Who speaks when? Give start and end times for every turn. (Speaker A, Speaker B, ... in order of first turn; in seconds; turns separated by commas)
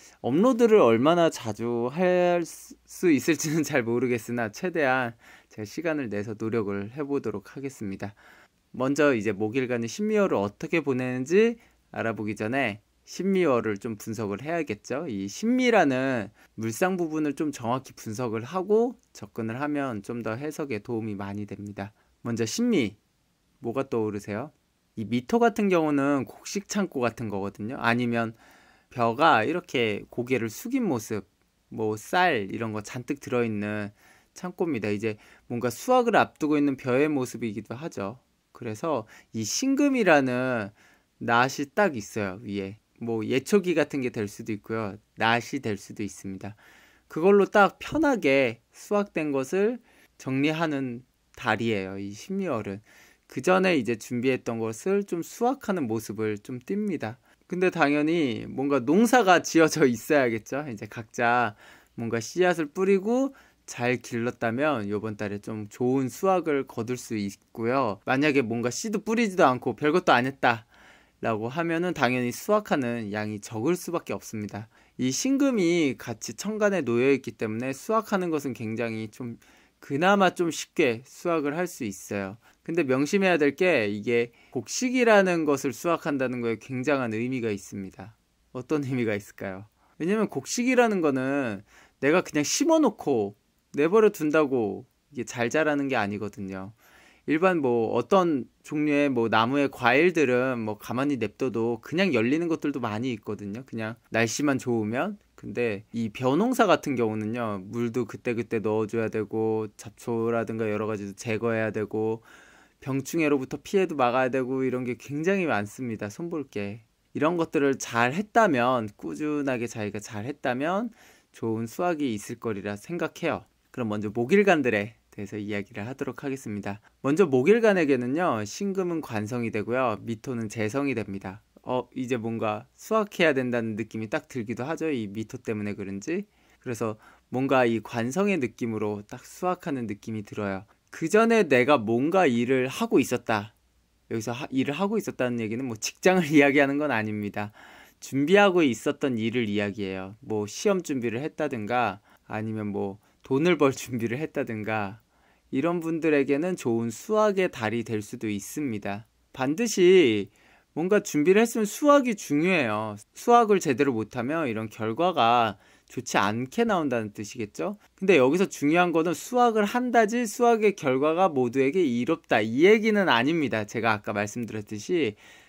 Speaker A: 0.2-8.2, Speaker A: 8.7-23.0, Speaker A: 23.6-28.4, Speaker A: 28.9-70.7, Speaker A: 71.2-96.8, Speaker A: 97.3-112.3, Speaker A: 112.8-143.5, Speaker A: 144.1-175.2